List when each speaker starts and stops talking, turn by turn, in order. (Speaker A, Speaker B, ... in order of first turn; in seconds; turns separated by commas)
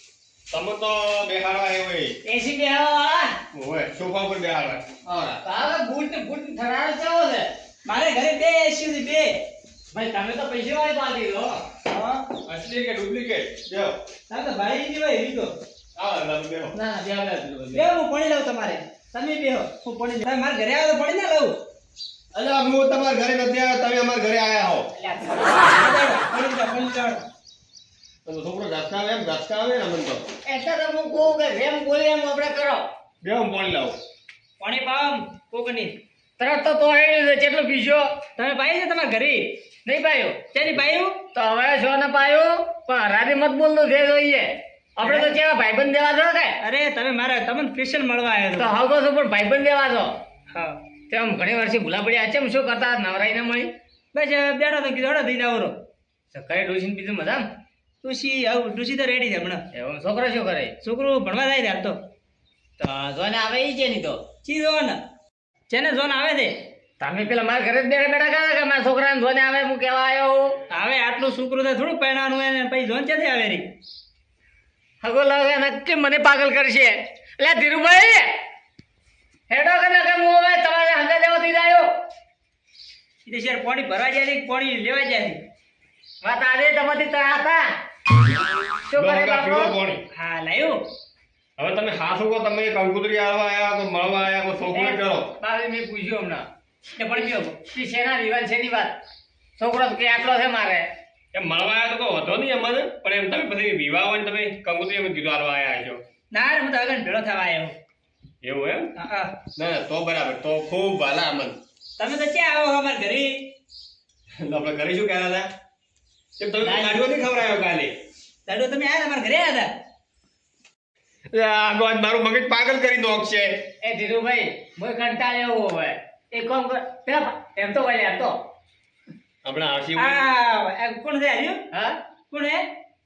Speaker A: 0.5-2.1, Speaker B: 2.2-3.4, Speaker A: 3.5-5.4, Speaker B: 5.4-7.5, Speaker C: 7.8-9.3, Speaker B: 9.9-11.6, Speaker C: 11.9-12.2, Speaker A: 12.5-14.0, Speaker C: 14.3-15.5, Speaker A: 16.0-16.8, Speaker B: 16.7-17.9, Speaker C: 17.7-21.6, Speaker A: 22.3-24.9, Speaker C: 25.0-27.2, Speaker A: 28.2-30.2, Speaker B: 30.5-32.9, Speaker A: 33.2-34.0, Speaker C: 34.6-35.9, Speaker B: 36.4-38.1, Speaker C: 38.4-39.5, Speaker B: 39.9-40.4, Speaker C: 40.5-41.1, Speaker B: 41.3-46.6, Speaker C: 45.0-45.3, Speaker C: 46.6-48.8, Speaker B: 48.6-50.1, Speaker C: 50.5-50.8, Speaker B: 51.1-53.7, Speaker C: 54.1-55.8, Speaker B: 56.3-57.5, Speaker C: 58.0-59.6, Speaker B: 59.7-60.7, Speaker C: 60.8-62.0, Speaker B: 62.8-64.2, Speaker C: 64.4-65.0, Speaker C: 65.7-66.6, Speaker B: 67.0-70.5, Speaker C: 70.7-73.7, Speaker B: 75.0-78.3, Speaker B: 79.5-81.9, Speaker C: 83.2-85.4, Speaker B: 86.2-87.7, Speaker B: 88.9-89.8, Speaker A: 88.9-90.0, Speaker C: 90.1-90.8, Speaker A: 91.6-95.3, Speaker B: 94.7-96.5, Speaker C: 97.0-97.6, Speaker B: 97.7-99.0, Speaker B: 99.6-100.9, Speaker A: 101.3-106.0, Speaker C: 106.3-107.7, Speaker A: 108.4-108.9, Speaker C: 109.0-109.3, Speaker A: 109.6-111.6, Speaker C: 112.0-113.3, Speaker A: 114.4-115.5, Speaker A: 116.4-117.9, Speaker C: 116.6-117.1, Speaker C: 118.5-119.7, Speaker A: 121.3-123.6, Speaker B: 123.8-128.4, Speaker A: 129.4-130.2, Speaker C: 130.0-131.6, Speaker B: 131.7-132.0, Speaker C: 132.3-132.7